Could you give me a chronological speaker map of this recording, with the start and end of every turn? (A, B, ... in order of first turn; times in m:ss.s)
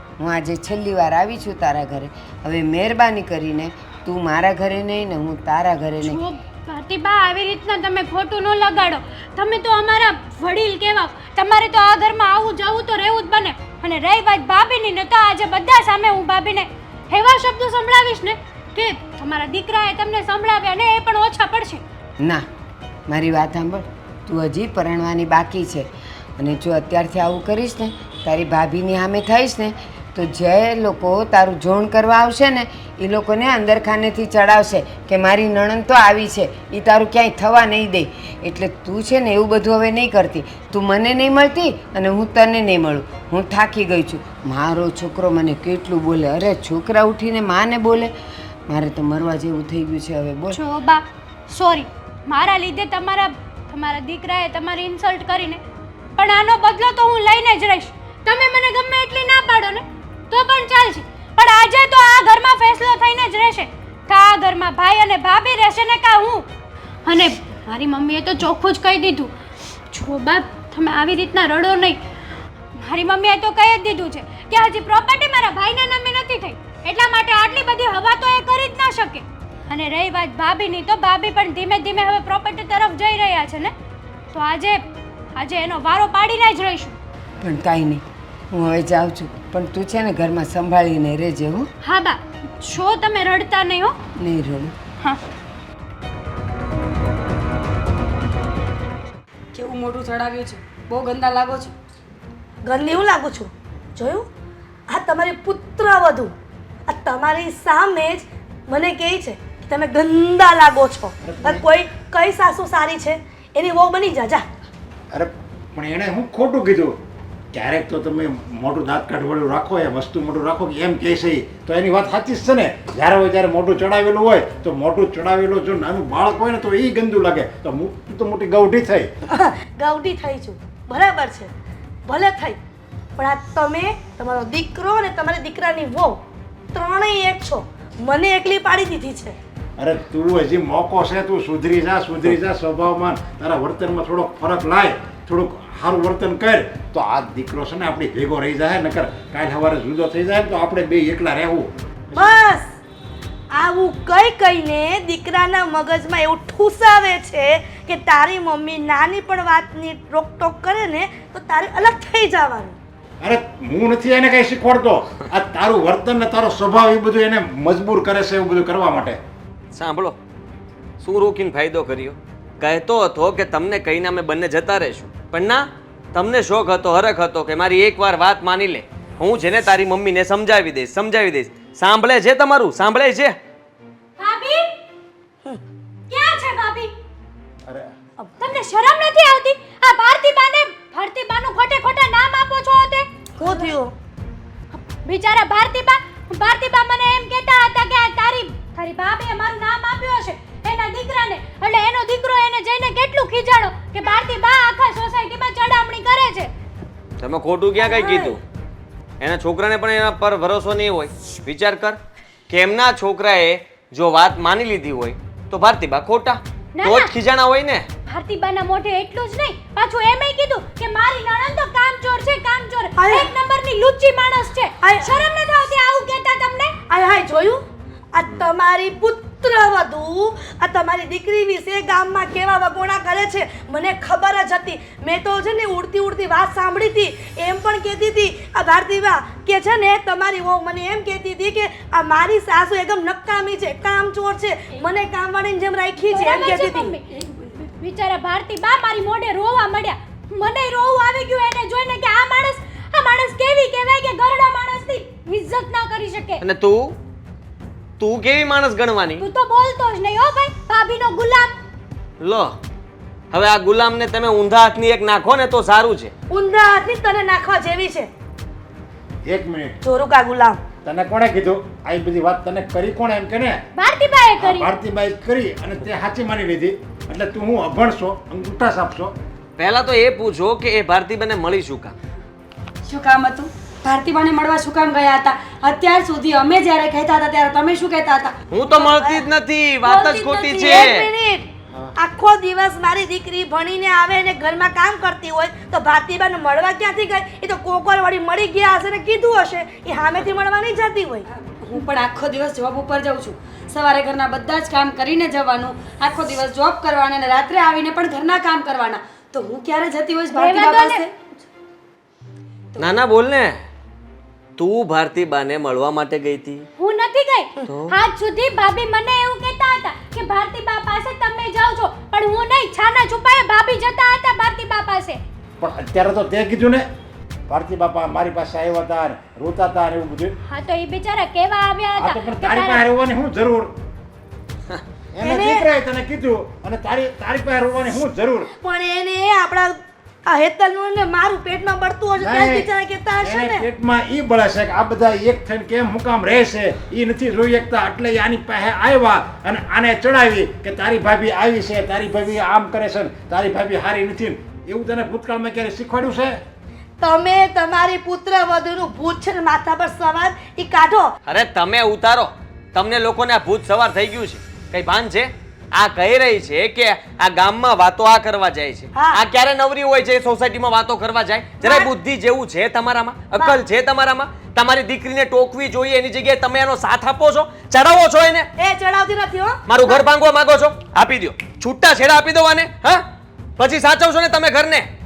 0:00.2-0:06.2 A
0:06.0-0:21.8 B
0:23.1-0:48.1 A
0:48.7-0:50.6 A
0:50.5-0:55.6 B
0:56.2-1:06.4 B
1:07.0-1:09.3 B
1:09.9-1:12.0 B
1:12.8-1:23.7 B
1:24.3-1:24.8 B
1:25.3-1:27.0 B
1:27.4-1:31.7 A
1:31.8-1:33.9 B
1:34.2-1:34.7 A
1:39.5-1:41.7 C
1:42.6-1:44.3 D
1:44.9-1:46.3 D
1:46.8-1:54.4 D
1:51.2-1:51.7 E
1:55.1-1:57.0 E
1:57.5-2:09.1 E
2:09.3-2:11.5 D
2:12.0-2:12.6 D
2:13.2-2:16.2 D
2:16.7-2:19.4 D
2:19.8-2:32.4 E
2:32.1-2:32.6 D
2:33.5-2:42.8 D
2:43.2-2:49.2 E
2:49.7-2:50.2 F
2:51.0-3:03.4 F
3:04.2-3:04.7 B
3:06.1-3:06.9 B
3:08.4-3:13.6 B
3:13.4-3:13.9 D
3:14.7-3:26.5 B
3:27.2-3:28.4 F
3:27.8-3:28.3 D
3:29.2-3:32.0 F
3:32.5-3:37.9 F
3:36.7-3:37.1 B
3:38.0-3:46.7 B
3:43.0-3:43.3 D
3:44.8-3:45.3 D
3:46.9-3:47.6 D
3:48.1-4:06.9 D
4:06.0-4:16.4 B
4:16.4-4:17.0 F
4:18.0-4:19.2 F
4:19.2-4:21.5 B
4:22.2-4:22.6 F
4:23.3-4:26.1 F
4:26.3-4:28.1 D
4:29.2-4:29.8 E
4:29.8-4:30.7 D
4:30.8-4:33.6 E
4:33.7-4:34.7 B
4:34.4-4:39.1 E
4:39.6-4:41.9 F
4:42.8-4:48.4 C
4:48.5-4:51.1 F
4:48.6-4:49.2 D
4:49.8-5:01.3 D
4:50.0-4:50.8 C
5:01.3-5:11.1 C
5:10.3-5:11.0 B
5:12.8-5:13.6 F
5:14.6-5:16.7 F
5:16.8-5:25.2 B
5:17.6-5:17.9 F
5:25.6-5:26.8 E
5:27.5-5:30.3 E
5:30.4-5:32.8 B
5:32.0-5:33.7 E
5:35.1-5:38.5 E
5:35.2-5:35.7 D
5:38.6-5:39.7 D
5:40.2-5:43.7 D
5:42.2-5:42.7 E
5:43.2-5:56.4 E
5:57.0-6:01.1 D
6:01.2-6:18.5 F
6:08.9-6:09.2 D
6:11.6-6:11.9 D
6:13.3-6:13.6 D
6:18.6-6:20.0 D
6:19.6-6:23.0 F
6:23.6-6:24.9 F